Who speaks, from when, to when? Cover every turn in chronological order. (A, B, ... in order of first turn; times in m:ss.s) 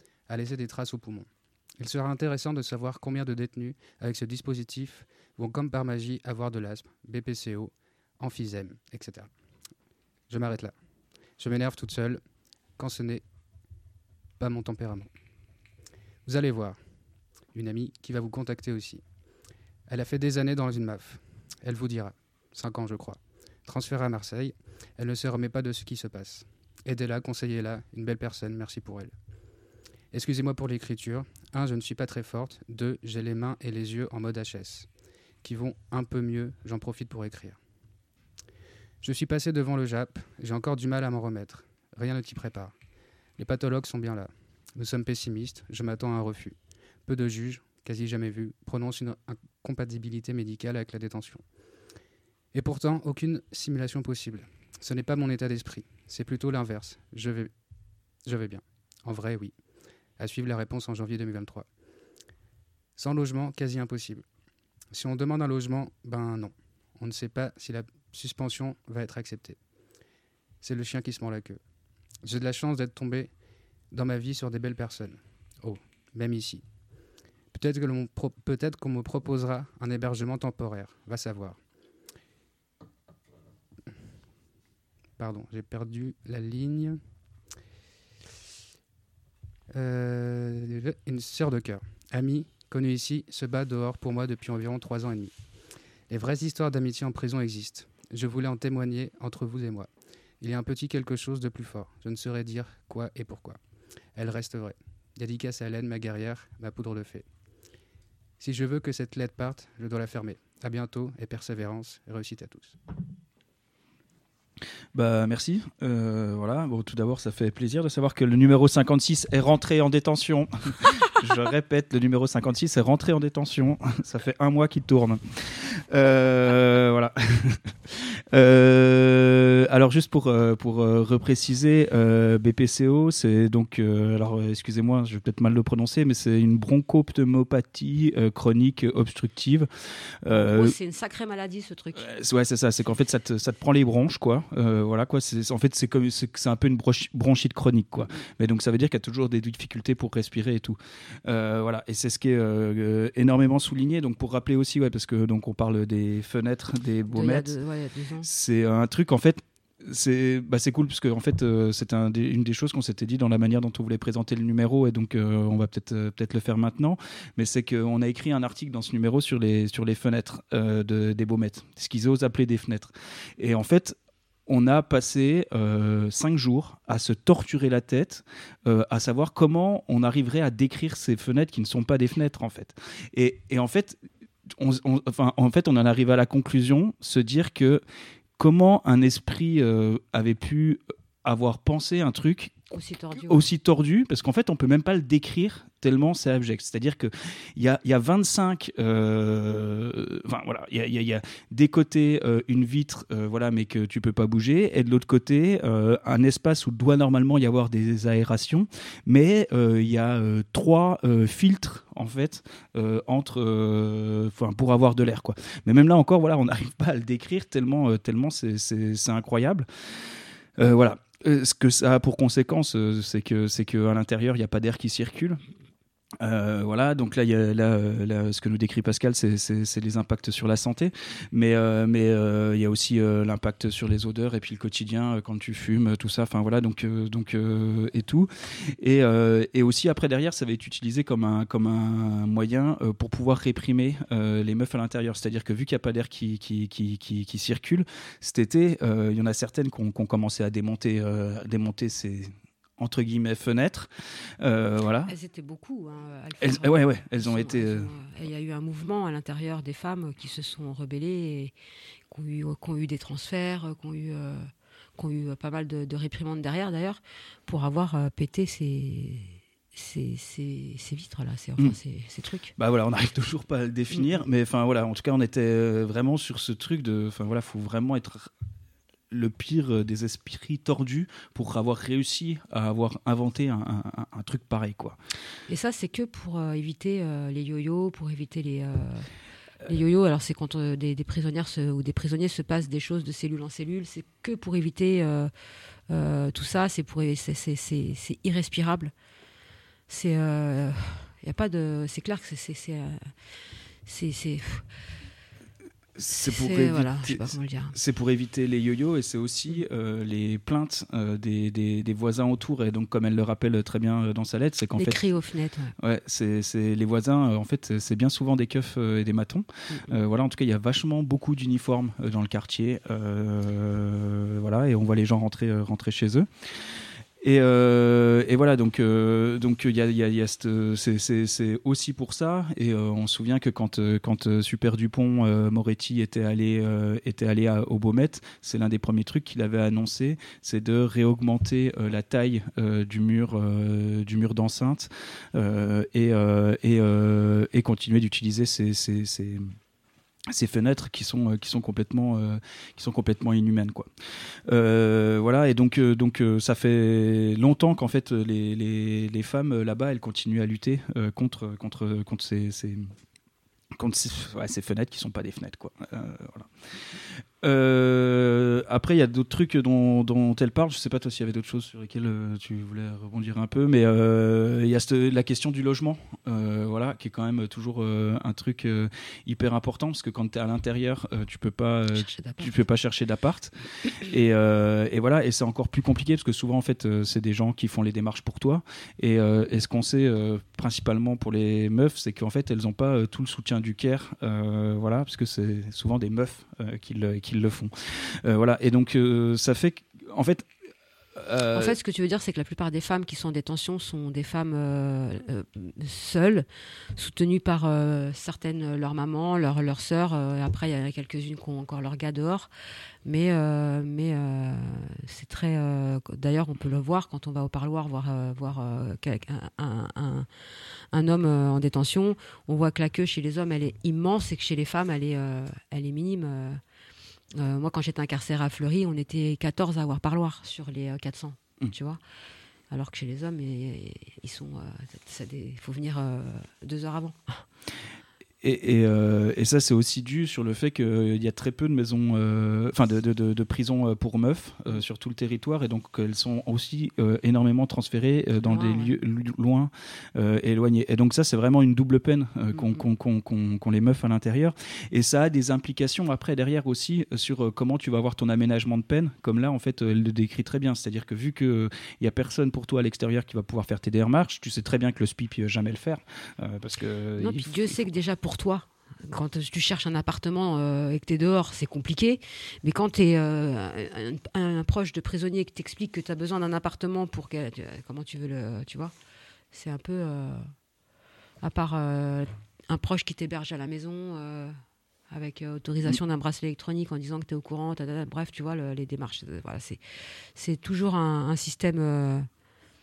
0:00.3-0:09.3 A
0:10.3-0:10.7 A
0:11.4-0:12.2 A
0:12.8-0:13.2 A
0:14.4-0:15.1 A
0:16.2-0:16.8 A
0:17.5-0:19.0 A
0:19.9-0:29.1 A
0:30.1-0:34.9 A
0:35.4-0:37.6 A
0:39.0-0:42.7 A
0:43.4-0:51.4 A
0:52.5-0:57.5 A
0:58.2-0:59.5 A
1:00.2-1:01.6 A
1:03.0-1:04.2 A
1:04.9-1:09.6 A
1:10.6-1:11.6 A
1:12.2-1:13.3 A
1:13.9-1:16.6 A
1:17.5-1:21.6 A
1:25.2-1:27.0 A
1:29.7-1:35.3 A
1:36.1-1:39.9 A
1:40.4-1:43.6 A
1:44.1-1:47.2 A
1:48.4-1:52.8 A
1:54.9-2:19.7 B
2:20.2-2:20.8 B
2:20.3-2:22.1 C
2:21.9-2:37.6 B
2:37.1-2:38.3 C
2:38.2-3:04.0 B
3:04.5-3:07.8 B
3:08.4-3:12.6 B
3:12.7-3:13.4 C
3:13.2-3:39.7 B
3:40.6-3:45.4 B
3:46.2-4:13.9 B
4:14.4-4:15.1 B
4:15.1-4:21.5 C
4:16.4-4:17.9 B
4:22.1-4:32.5 C
4:32.6-4:38.3 B
4:39.1-4:45.0 B
4:45.5-4:49.1 C
4:49.6-4:55.3 C
4:55.9-4:58.9 C
4:59.9-5:03.1 C
5:03.8-5:04.6 C
5:06.0-5:15.0 B
5:06.1-5:07.8 C
5:14.8-5:15.7 C
5:15.8-5:26.3 B
5:27.2-5:49.4 B
5:50.3-5:53.9 B
5:54.5-6:02.9 B
6:03.7-6:06.5 B
6:07.4-6:40.5 B
6:21.9-6:22.5 C
6:41.1-6:41.8 B
6:41.5-6:52.5 C
6:53.0-7:00.3 C
7:00.9-7:06.6 C
7:07.3-7:12.0 C
7:12.7-7:17.4 C
7:18.4-7:47.8 B
7:28.4-7:29.0 C
7:32.5-7:32.8 C
7:47.2-7:58.9 C
7:59.5-8:00.5 C
8:01.4-8:04.6 C
8:05.1-8:09.8 C
8:10.3-8:12.3 C